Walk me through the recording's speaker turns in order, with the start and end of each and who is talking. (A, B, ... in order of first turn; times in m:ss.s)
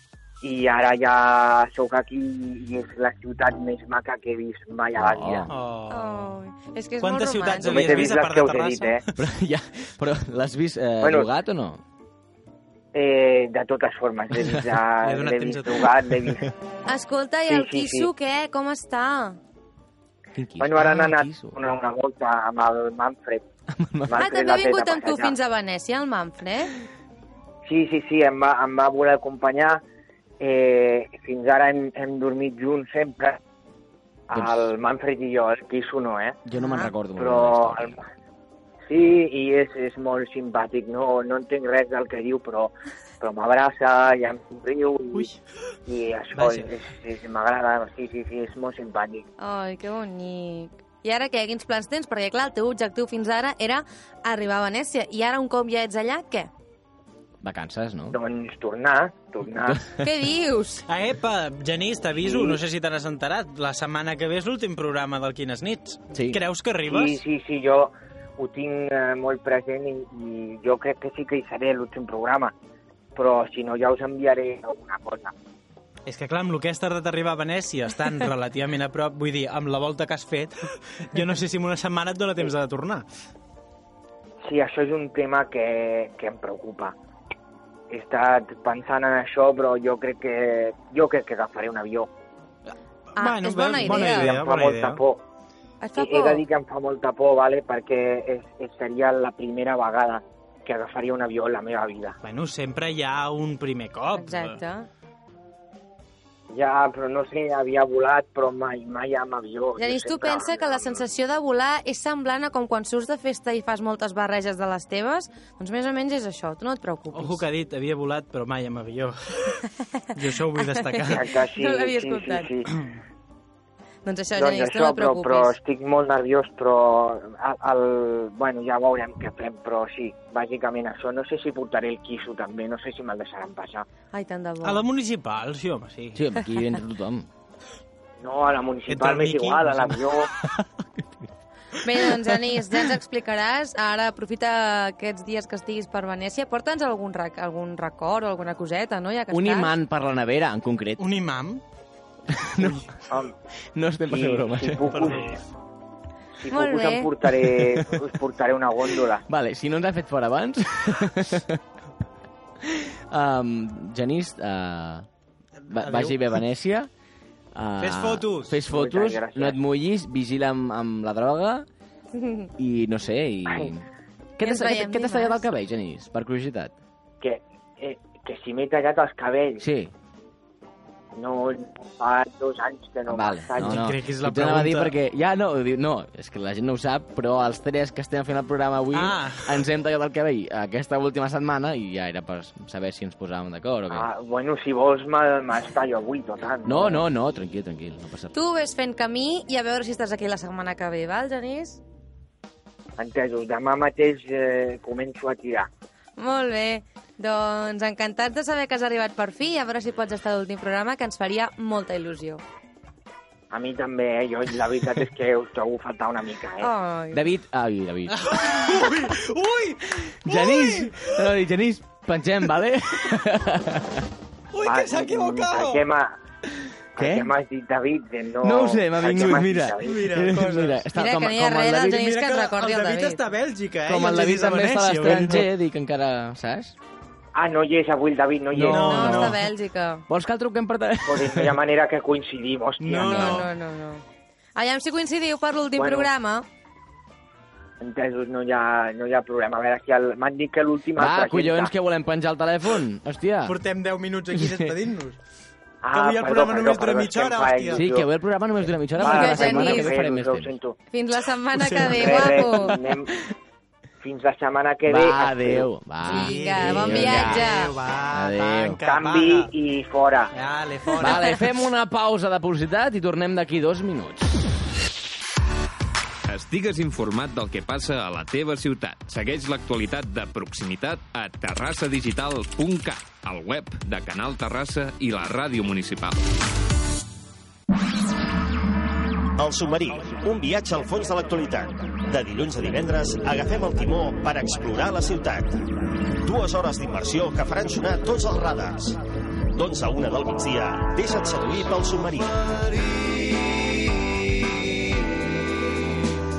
0:00.4-0:05.5 A
0:05.0-0:05.5 B
0:05.5-0:06.3 C
0:05.9-0:08.2 D
0:07.0-0:09.1 C
0:07.6-0:09.0 A
0:09.2-0:11.8 B
0:11.0-0:11.3 A
0:12.9-0:16.5 A
0:15.0-0:16.3 C
0:16.9-0:19.4 D
0:17.5-0:18.1 A
0:20.4-0:21.6 B
0:20.6-0:23.4 A
0:23.7-0:24.2 B
0:24.1-0:25.4 A
0:24.2-0:26.7 D
0:27.7-0:29.8 A
0:30.4-0:33.4 A
0:34.3-0:36.4 A
0:34.3-0:34.7 B
0:36.5-0:38.0 B
0:36.6-0:36.9 D
0:37.2-0:38.0 A
0:38.9-0:45.3 A
0:45.9-0:49.2 A
0:46.3-0:46.7 C
0:49.4-0:56.5 D
0:57.4-0:58.2 B
0:58.1-0:59.8 A
1:00.0-1:00.8 D
1:00.9-1:07.2 C
1:02.2-1:02.6 A
1:06.1-1:06.4 B
1:06.9-1:12.5 A
1:13.2-1:15.3 A
1:16.1-1:23.1 C
1:24.4-1:27.0 A
1:27.9-1:32.1 A
1:33.2-1:34.3 D
1:33.2-1:35.0 C
1:33.8-1:35.2 A
1:35.8-1:36.4 D
1:36.0-1:42.2 A
1:42.2-1:44.6 C
1:44.1-1:44.9 D
1:46.5-1:51.0 A
1:49.8-1:57.4 D
1:57.1-1:59.6 C
2:00.1-2:01.3 C
2:00.7-2:02.5 D
2:01.1-2:02.8 A
2:04.0-2:05.6 D
2:04.4-2:13.9 A
2:14.1-2:14.8 D
2:14.6-2:16.3 C
2:16.2-2:17.3 B
2:18.2-2:20.3 A
2:18.9-2:20.0 C
2:21.0-2:21.3 B
2:21.8-2:29.8 D
2:29.3-2:31.0 B
2:31.0-2:31.6 C
2:32.3-2:32.9 B
2:33.8-2:35.1 B
2:34.1-2:35.4 A
2:34.9-2:35.3 C
2:36.4-2:39.2 A
2:36.5-2:37.1 D
2:37.4-2:38.0 B
2:39.3-2:41.6 B
2:42.6-2:45.1 B
2:45.6-2:46.3 C
2:45.7-2:46.9 B
2:47.6-2:51.7 B
2:47.8-2:48.6 C
2:48.7-2:49.6 A
2:52.2-2:52.5 D
2:52.6-2:56.7 B
2:54.4-2:55.5 D
2:57.2-2:59.6 A
2:59.6-2:59.9 B
3:01.2-3:03.9 A
3:03.1-3:14.1 B
3:03.6-3:05.0 C
3:08.9-3:09.6 C
3:13.9-3:17.0 A
3:16.6-3:18.4 B
3:18.3-3:21.8 D
3:23.0-3:25.7 A
3:26.2-3:32.4 D
3:33.5-3:36.7 A
3:36.6-3:37.3 D
3:37.1-3:38.7 B
3:38.1-3:41.2 C
3:40.2-3:44.1 B
3:44.5-3:45.8 C
3:44.6-3:46.2 A
3:47.0-3:47.3 B
3:47.0-3:50.3 A
3:48.4-3:52.1 B
3:49.2-3:50.8 C
3:51.0-3:53.2 D
3:51.9-3:55.5 C
3:53.9-3:56.8 B
3:57.4-3:59.2 A
3:58.5-3:59.5 B
3:58.7-3:59.4 C
3:58.7-4:00.0 D
4:00.1-4:01.6 B
4:01.0-4:03.5 A
4:02.8-4:03.5 C
4:03.1-4:04.0 D
4:04.6-4:06.5 D
4:05.8-4:06.1 A
4:07.8-4:11.7 A
4:11.0-4:13.6 B
4:13.5-4:15.2 C
4:14.3-4:14.7 B
4:15.8-4:18.1 A
4:15.9-4:17.9 C
4:17.7-4:20.5 B
4:19.0-4:20.8 A
4:19.0-4:19.9 D
4:20.9-4:22.8 D
4:21.6-4:22.2 C
4:21.8-4:23.1 A
4:22.3-4:22.9 B
4:24.0-4:25.7 A
4:24.9-4:27.6 B
4:26.0-4:29.5 C
4:26.1-4:27.7 D
4:28.1-4:28.8 B
4:28.9-4:30.3 A
4:30.3-4:31.5 C
4:31.0-4:34.4 B
4:36.3-4:46.2 E
4:49.4-4:59.0 F
4:59.5-5:02.4 F